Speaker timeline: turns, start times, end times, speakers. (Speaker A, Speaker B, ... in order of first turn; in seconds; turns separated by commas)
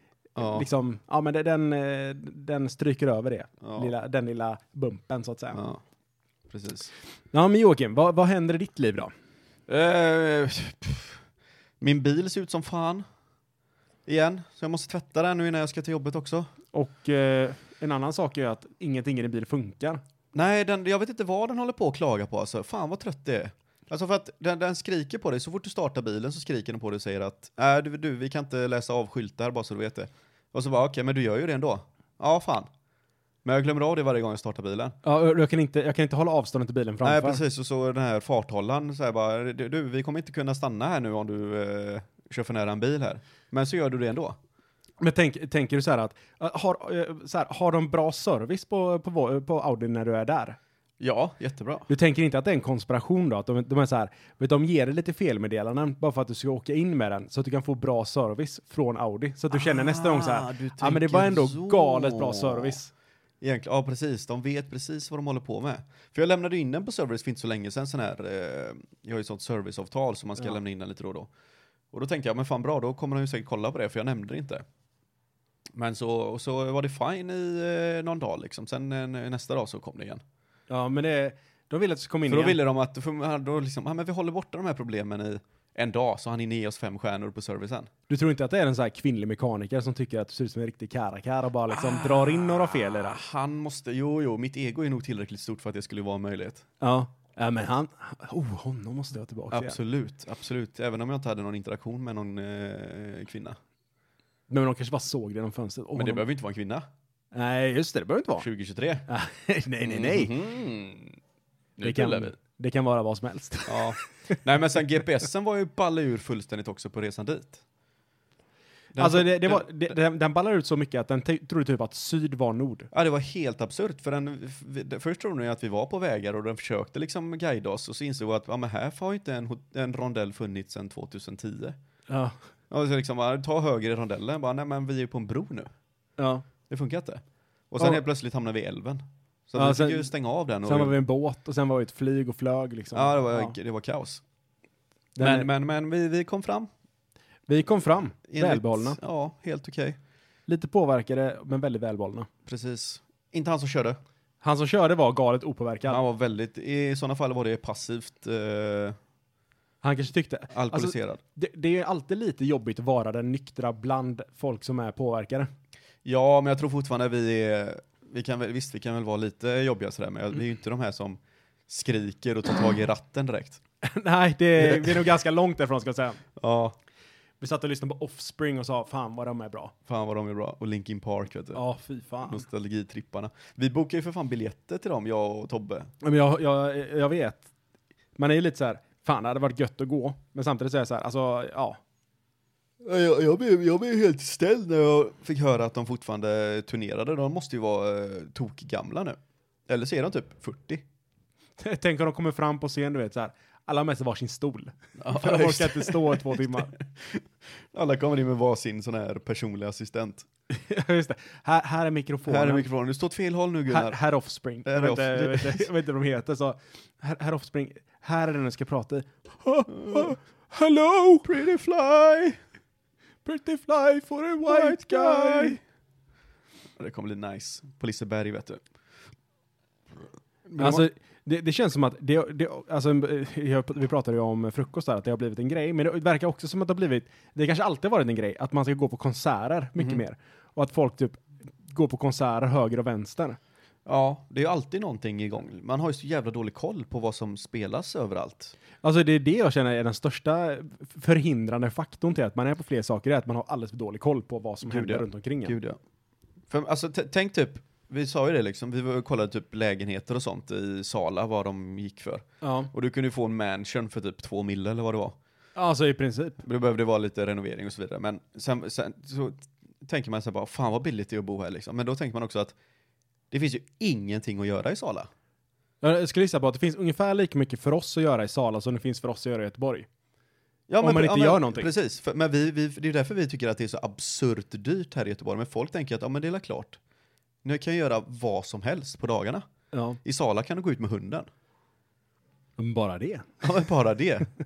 Speaker A: 0.3-0.7, Speaker B: 0.4-5.6, Speaker A: 3.6-3.9, Speaker A: 5.5-5.8, Speaker A: 6.5-6.9, Speaker B: 7.3-9.1, Speaker A: 9.7-11.2, Speaker A: 11.8-13.0, Speaker A: 14.1-16.5, Speaker B: 16.7-20.0, Speaker A: 20.3-32.7, Speaker A: 33.4-35.0, Speaker B: 35.0-37.4, Speaker A: 37.0-44.4, Speaker B: 45.0-50.6, Speaker A: 51.0-51.9, Speaker B: 51.9-62.9, Speaker A: 59.5-62.8, Speaker A: 63.4-71.3, Speaker A: 71.9-74.6, Speaker A: 75.7-80.2, Speaker B: 80.7-82.6, Speaker A: 82.3-87.9, Speaker B: 88.1-93.2, Speaker A: 91.7-96.6, Speaker B: 96.8-99.8, Speaker A: 99.5-103.6, Speaker B: 104.5-106.2, Speaker A: 105.9-106.8, Speaker B: 107.3-108.5, Speaker A: 108.4-109.0, Speaker B: 109.1-110.3, Speaker A: 109.8-111.2, Speaker A: 111.8-112.3, Speaker B: 111.8-114.4, Speaker A: 113.7-117.6, Speaker A: 118.9-119.9, Speaker B: 119.0-122.9, Speaker A: 122.9-131.8, Speaker B: 132.1-132.3, Speaker A: 132.7-135.7, Speaker B: 136.2-136.4, Speaker A: 136.7-140.9, Speaker B: 139.6-140.1, Speaker B: 140.6-143.5, Speaker A: 142.9-144.2, Speaker B: 145.2-145.5, Speaker A: 145.2-146.7, Speaker B: 147.5-149.0, Speaker A: 148.3-150.0, Speaker B: 150.5-152.3, Speaker A: 152.4-154.0, Speaker B: 154.4-156.0, Speaker A: 155.9-159.0, Speaker B: 159.8-165.5, Speaker A: 160.5-161.2, Speaker A: 166.0-173.6, Speaker B: 173.8-176.2, Speaker A: 174.6-175.1, Speaker A: 176.4-176.8, Speaker B: 177.4-179.7, Speaker A: 179.9-181.6, Speaker B: 181.5-182.4, Speaker A: 182.2-185.9, Speaker B: 186.0-187.5, Speaker B: 188.2-191.8, Speaker A: 192.8-200.8, Speaker B: 201.6-206.7, Speaker A: 205.0-210.3, Speaker B: 210.5-212.7, Speaker A: 212.3-214.0, Speaker B: 213.7-221.3, Speaker A: 214.6-215.7, Speaker A: 219.7-220.2, Speaker A: 221.2-222.4, Speaker B: 223.2-225.6, Speaker A: 224.4-225.6, Speaker A: 226.8-228.6, Speaker A: 230.5-230.8, Speaker B: 230.6-243.4, Speaker A: 243.8-248.5, Speaker B: 248.8-255.5, Speaker A: 254.6-255.8, Speaker A: 256.5-265.2, Speaker B: 262.4-262.7, Speaker B: 265.6-266.4, Speaker A: 266.4-272.5, Speaker A: 273.3-275.1, Speaker B: 275.8-279.9, Speaker A: 280.7-286.8, Speaker B: 280.8-281.7, Speaker A: 287.4-289.4, Speaker B: 289.7-290.0, Speaker A: 290.0-291.3, Speaker B: 292.6-293.4, Speaker A: 293.4-294.3